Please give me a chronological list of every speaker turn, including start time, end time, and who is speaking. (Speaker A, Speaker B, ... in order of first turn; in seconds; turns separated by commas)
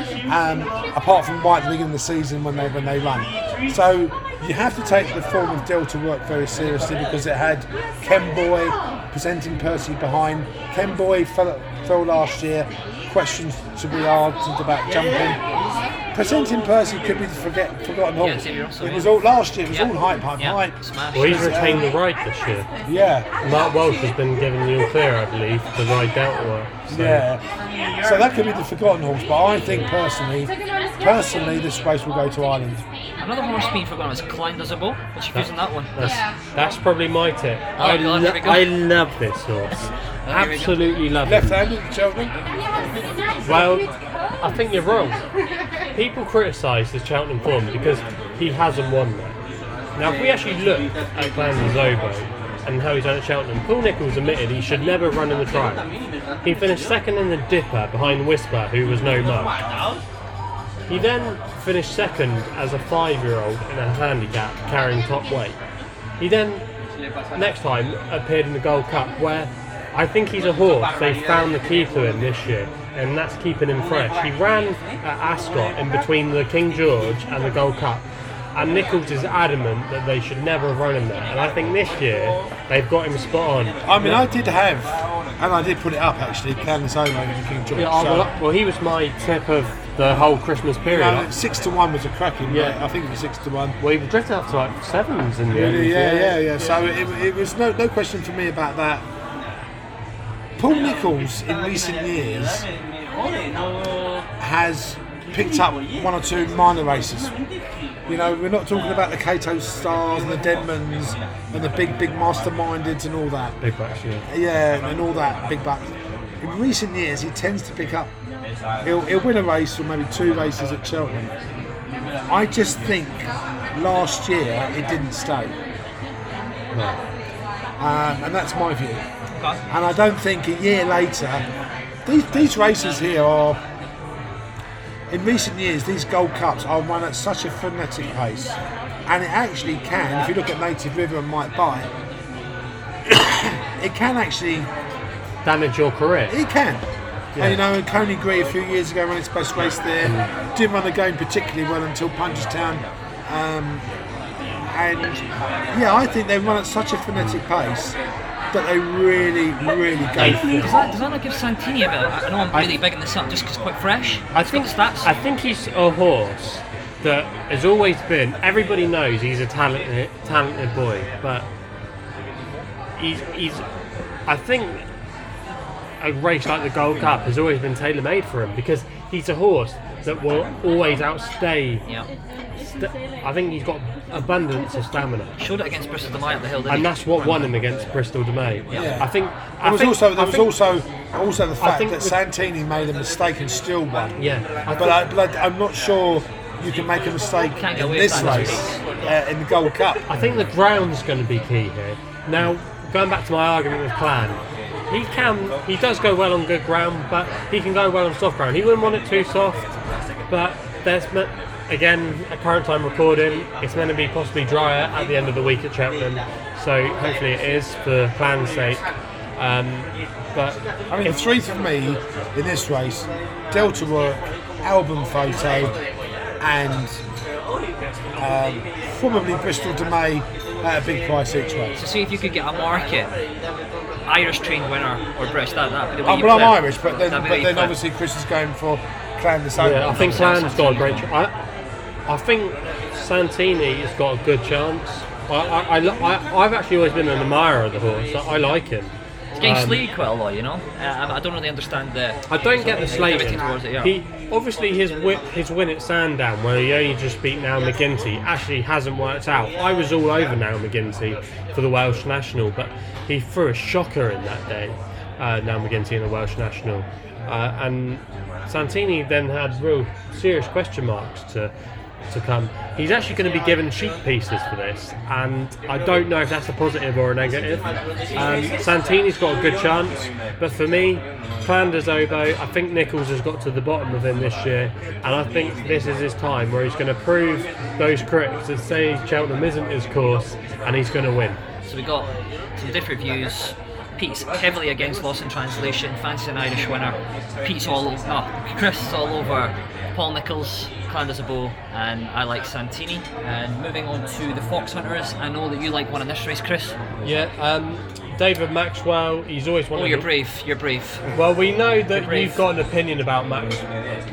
Speaker A: 0.3-15.4, Speaker A: 16.1-21.9, Speaker B: 18.2-19.1, Speaker B: 19.7-21.8, Speaker C: 21.1-22.7, Speaker A: 22.9-23.3, Speaker C: 23.4-27.2, Speaker A: 26.9-27.4, Speaker A: 28.0-32.8, Speaker B: 33.2-35.9, Speaker C: 35.3-41.6, Speaker B: 37.8-38.6, Speaker B: 40.2-40.7, Speaker A: 41.2-42.3, Speaker C: 43.4-43.9, Speaker C: 44.4-45.2, Speaker C: 45.9-49.4, Speaker C: 50.0-55.8, Speaker C: 56.4-59.5, Speaker C: 60.9-65.6, Speaker C: 66.2-66.6, Speaker C: 67.3-84.2, Speaker A: 83.8-88.3, Speaker C: 87.8-91.3, Speaker A: 90.8-93.8, Speaker C: 92.5-92.8, Speaker C: 93.8-96.4, Speaker A: 95.5-99.0, Speaker A: 100.6-102.7, Speaker A: 104.4-107.3, Speaker A: 108.1-113.5, Speaker C: 113.6-114.2, Speaker A: 114.3-118.1, Speaker A: 118.8-121.3, Speaker A: 122.3-125.5, Speaker C: 126.7-127.0, Speaker A: 127.8-129.0, Speaker B: 129.3-129.6, Speaker A: 129.7-131.4, Speaker A: 132.1-133.6, Speaker A: 135.1-138.5, Speaker A: 139.1-141.9, Speaker A: 143.1-144.7, Speaker C: 145.4-146.4, Speaker A: 146.3-146.8, Speaker C: 147.3-147.6, Speaker A: 147.4-153.8, Speaker C: 150.0-150.3, Speaker A: 154.7-158.0, Speaker A: 158.5-160.7, Speaker C: 160.2-160.9, Speaker B: 160.6-165.1, Speaker C: 164.3-171.4, Speaker C: 173.0-173.6, Speaker C: 174.3-174.8, Speaker C: 176.0-181.8, Speaker C: 182.6-185.3, Speaker B: 185.4-187.4, Speaker C: 186.7-190.5, Speaker B: 188.7-188.9, Speaker A: 188.7-194.2, Speaker C: 191.6-192.2, Speaker C: 194.2-195.0, Speaker A: 194.8-200.1, Speaker B: 197.6-198.8, Speaker C: 198.2-198.5, Speaker C: 200.1-204.4, Speaker C: 204.9-209.7, Speaker C: 210.3-218.8, Speaker C: 219.4-221.2, Speaker A: 220.9-225.8, Speaker A: 226.4-227.0, Speaker A: 228.2-231.8, Speaker B: 231.8-233.1, Speaker B: 234.1-237.8, Speaker A: 236.0-240.4, Speaker C: 239.6-241.3, Speaker B: 239.8-241.1, Speaker C: 242.1-249.8, Speaker B: 249.4-253.9, Speaker C: 252.3-271.5, Speaker C: 272.1-277.6, Speaker C: 278.1-291.4, Speaker B: 291.6-306.8, Speaker C: 307.0-310.1, Speaker B: 309.7-311.1, Speaker C: 311.1-313.6, Speaker B: 311.9-312.4